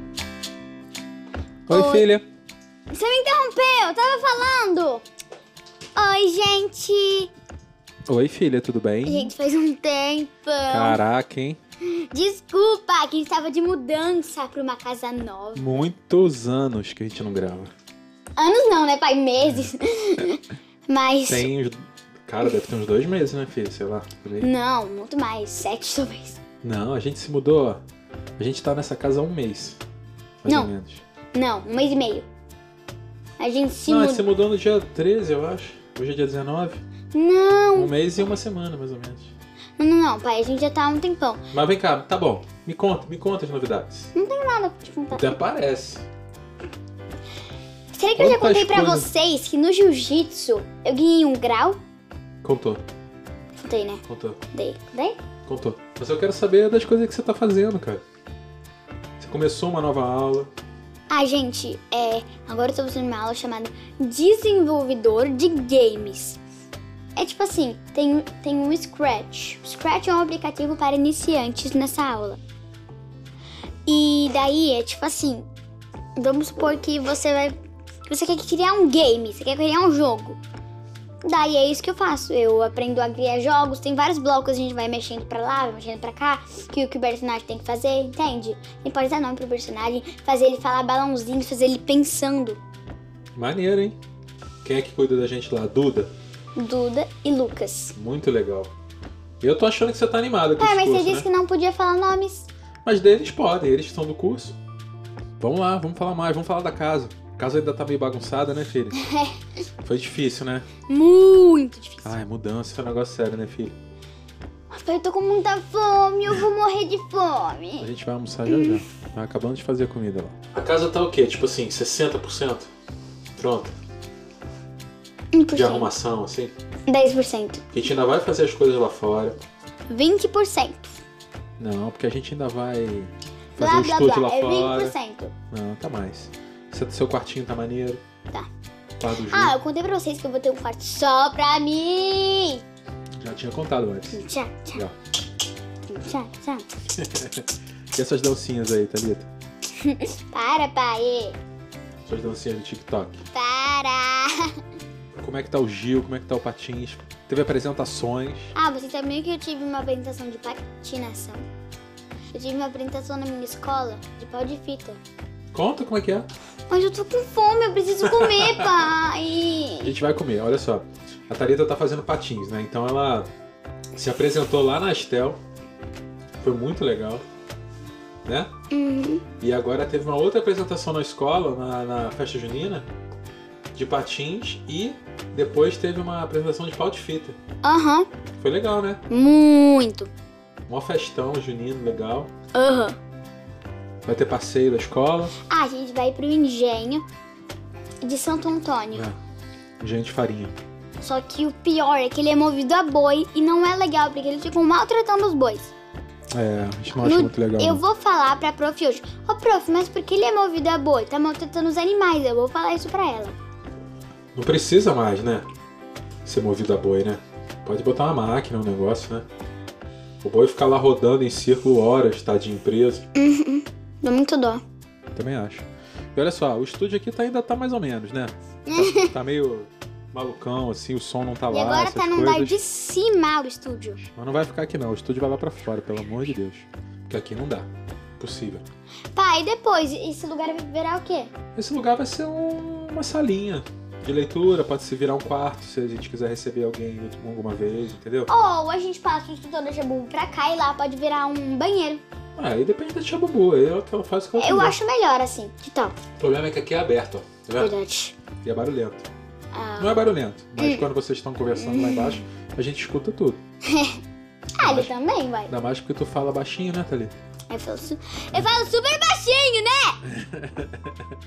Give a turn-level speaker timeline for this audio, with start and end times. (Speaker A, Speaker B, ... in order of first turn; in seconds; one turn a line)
Speaker A: 1.7-2.1
Speaker B: 1.7-2.2
Speaker A: 2.9-5.0
Speaker A: 6.0-7.3
Speaker B: 8.1-9.3
Speaker A: 9.1-11.0
Speaker B: 10.7-11.6
Speaker A: 11.8-15.6
Speaker B: 15.6-17.7
Speaker A: 18.4-21.5
Speaker B: 21.3-24.5
Speaker A: 24.4-26.4
Speaker B: 26.6-27.8
Speaker B: 28.4-29.8
Speaker B: 30.4-31.0
Speaker A: 30.5-30.7
Speaker A: 31.3-32.3
Speaker A: 33.4-34.2
Speaker B: 33.9-36.8
Speaker A: 37.1-38.0
Speaker B: 37.8-39.3
Speaker A: 39.8-41.4
Speaker B: 41.5-44.1
Speaker A: 44.1-45.4
Speaker B: 45.1-46.0
Speaker A: 47.9-51.8
Speaker B: 48.2-49.1
Speaker B: 52.4-52.8
Speaker A: 53.6-55.2
Speaker B: 54.1-54.4
Speaker B: 55.5-58.0
Speaker B: 59.2-60.5
Speaker A: 61.1-66.4
Speaker A: 67.2-72.4
Speaker A: 73.9-75.5
Speaker A: 76.2-77.6
Speaker A: 78.1-80.4
Speaker A: 81.2-92.6
Speaker B: 93.3-94.0
Speaker B: 94.6-96.1
Speaker A: 96.6-98.0
Speaker B: 98.0-98.7
Speaker B: 99.4-101.3
Speaker A: 100.6-102.5
Speaker B: 102.8-104.6
Speaker B: 105.4-109.0
Speaker A: 108.9-109.4
Speaker B: 109.8-110.7
Speaker A: 110.9-112.2
Speaker B: 112.0-113.8
Speaker A: 114.7-117.9
Speaker B: 117.8-122.7
Speaker A: 118.5-118.8
Speaker B: 123.4-123.8
Speaker A: 125.3-125.9
Speaker B: 125.5-126.5
Speaker A: 126.9-127.6
Speaker B: 127.7-129.4
Speaker A: 129.9-131.0
Speaker B: 131.6-134.9
Speaker A: 133.6-135.3
Speaker B: 135.5-138.0
Speaker B: 139.0-139.6
Speaker A: 139.3-142.6
Speaker B: 143.2-144.2
Speaker A: 144.1-144.8
Speaker A: 145.9-146.7
Speaker B: 146.9-149.3
Speaker A: 149.8-151.4
Speaker B: 152.1-153.2
Speaker A: 153.3-154.6
Speaker B: 155.2-158.5
Speaker A: 158.6-161.4
Speaker A: 162.3-165.0
Speaker B: 165.5-166.3
Speaker A: 166.7-169.9
Speaker B: 168.0-168.9
Speaker B: 169.8-173.3
Speaker B: 174.0-175.4
Speaker B: 176.4-177.2
Speaker B: 178.2-178.5
Speaker A: 178.7-179.2
Speaker B: 179.4-182.9
Speaker B: 183.7-187.4
Speaker A: 187.6-188.1
Speaker B: 188.4-189.0
Speaker A: 189.1-190.1
Speaker B: 190.7-192.3
Speaker A: 192.5-193.0
Speaker B: 194.1-195.4
Speaker A: 195.5-197.1
Speaker A: 198.0-199.1
Speaker B: 199.8-200.6
Speaker A: 201.0-205.7
Speaker B: 206.3-207.8
Speaker A: 207.0-213.4
Speaker B: 214.3-215.5
Speaker B: 216.2-219.3
Speaker B: 220.2-223.0
Speaker A: 223.2-224.6
Speaker B: 225.1-232.6
Speaker A: 228.7-229.1
Speaker A: 231.5-234.0
Speaker B: 234.2-237.7
Speaker B: 238.2-238.6
Speaker A: 239.1-241.3
Speaker B: 241.6-248.3
Speaker A: 248.3-252.0
Speaker B: 252.4-254.8
Speaker A: 254.4-256.0
Speaker B: 256.2-257.7
Speaker A: 257.6-258.2
Speaker B: 258.4-259.1
Speaker A: 259.5-260.9
Speaker B: 259.8-263.4
Speaker A: 261.5-262.2
Speaker A: 263.6-264.0
Speaker A: 264.6-265.5
Speaker B: 264.6-264.9
Speaker B: 265.5-267.1
Speaker A: 267.5-270.0
Speaker B: 270.1-271.0